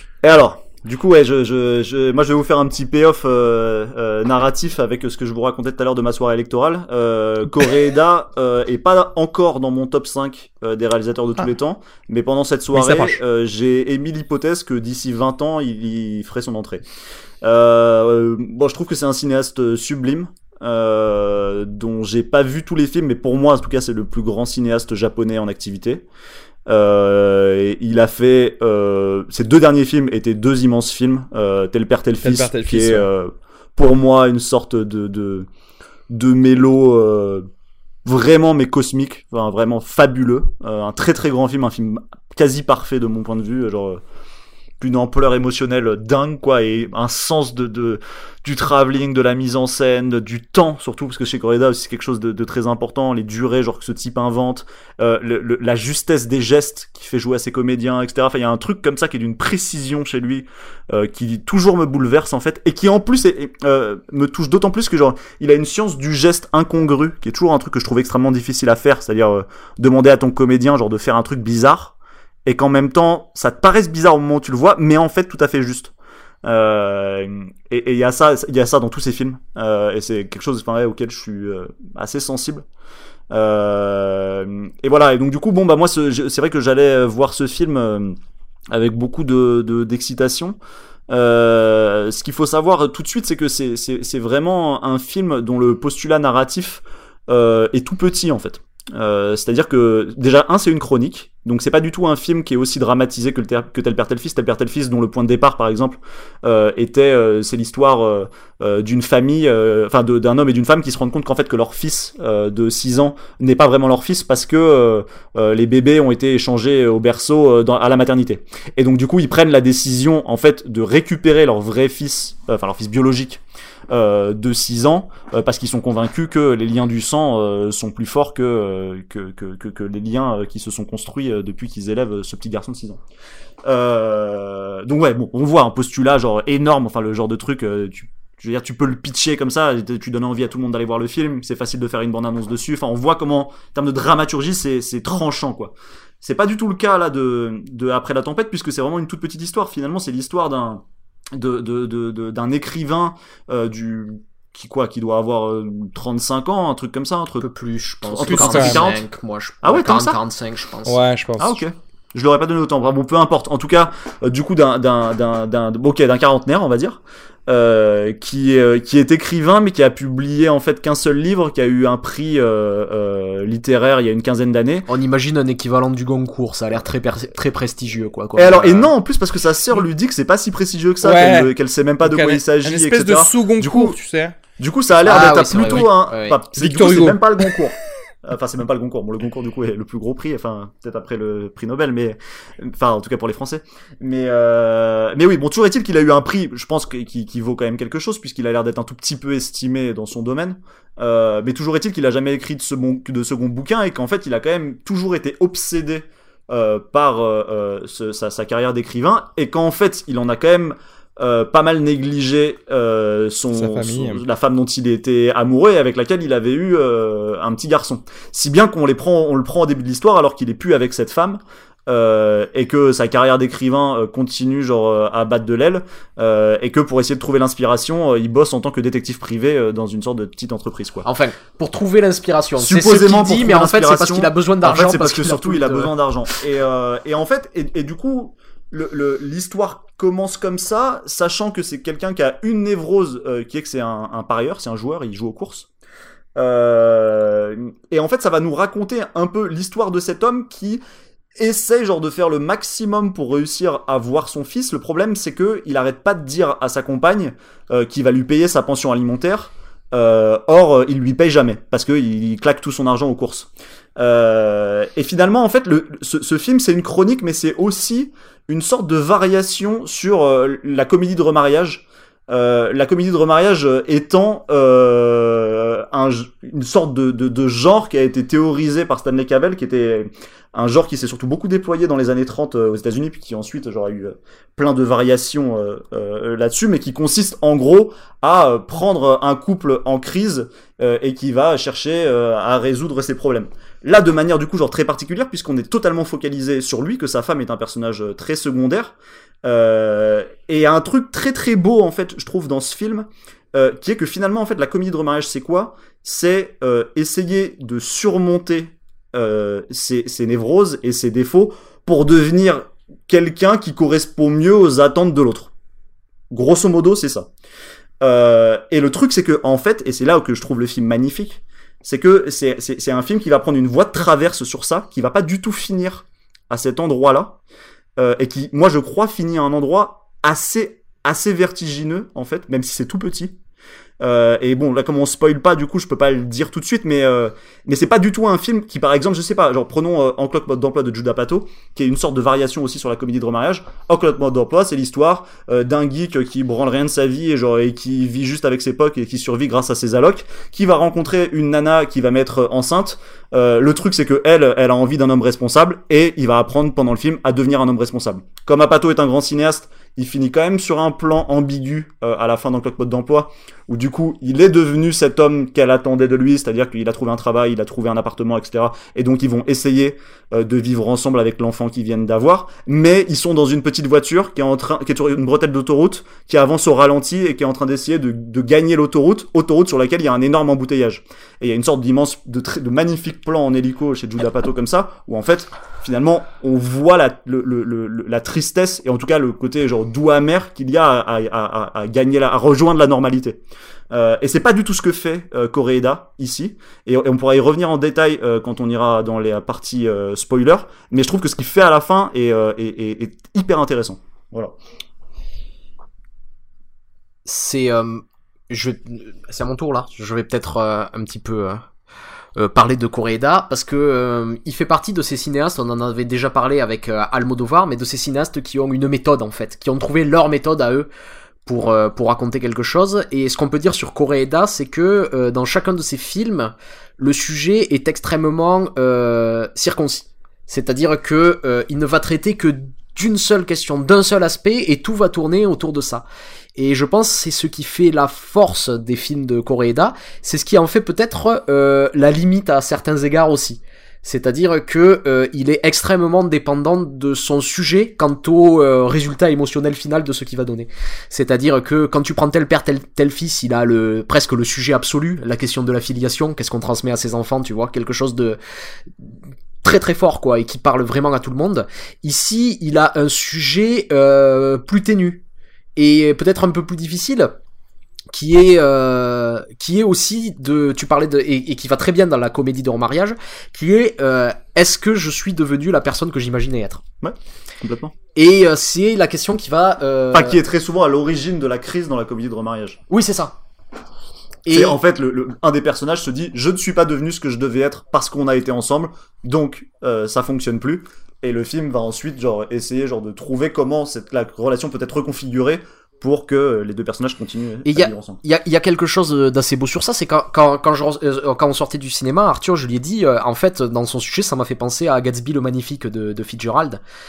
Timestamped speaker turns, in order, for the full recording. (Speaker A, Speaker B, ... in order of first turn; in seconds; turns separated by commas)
Speaker A: 0.2-16.8, Speaker B: 12.7-13.2, Speaker A: 17.4-26.0, Speaker A: 26.7-35.5, Speaker B: 32.2-33.1, Speaker A: 36.1-37.5, Speaker A: 38.0-44.0, Speaker A: 44.8-75.9, Speaker A: 76.4-82.6, Speaker A: 83.3-88.2, Speaker A: 88.7-90.6, Speaker A: 91.1-133.0, Speaker A: 133.6-157.5, Speaker C: 157.4-161.0, Speaker A: 158.0-159.0, Speaker B: 158.3-158.8, Speaker A: 159.6-160.2, Speaker B: 160.8-161.6, Speaker A: 161.4-174.9, Speaker C: 174.9-178.9, Speaker A: 178.4-184.0, Speaker B: 181.0-184.4, Speaker A: 184.6-231.1, Speaker C: 185.0-186.4, Speaker B: 186.5-187.4, Speaker B: 213.5-214.2, Speaker C: 231.0-235.9, Speaker A: 232.6-245.7, Speaker A: 246.3-250.8, Speaker A: 251.4-315.5, Speaker A: 316.3-317.3, Speaker A: 318.0-327.4, Speaker A: 328.0-333.4, Speaker A: 334.0-404.6, Speaker C: 407.2-411.6, Speaker C: 412.4-420.9, Speaker C: 421.4-436.0, Speaker C: 436.6-458.4, Speaker C: 459.6-465.2, Speaker C: 465.8-467.3, Speaker C: 468.1-476.8, Speaker A: 477.0-477.9, Speaker C: 478.1-480.4, Speaker A: 480.1-482.8, Speaker C: 482.9-483.3, Speaker C: 484.4-484.8, Speaker A: 484.5-498.2, Speaker C: 497.6-506.8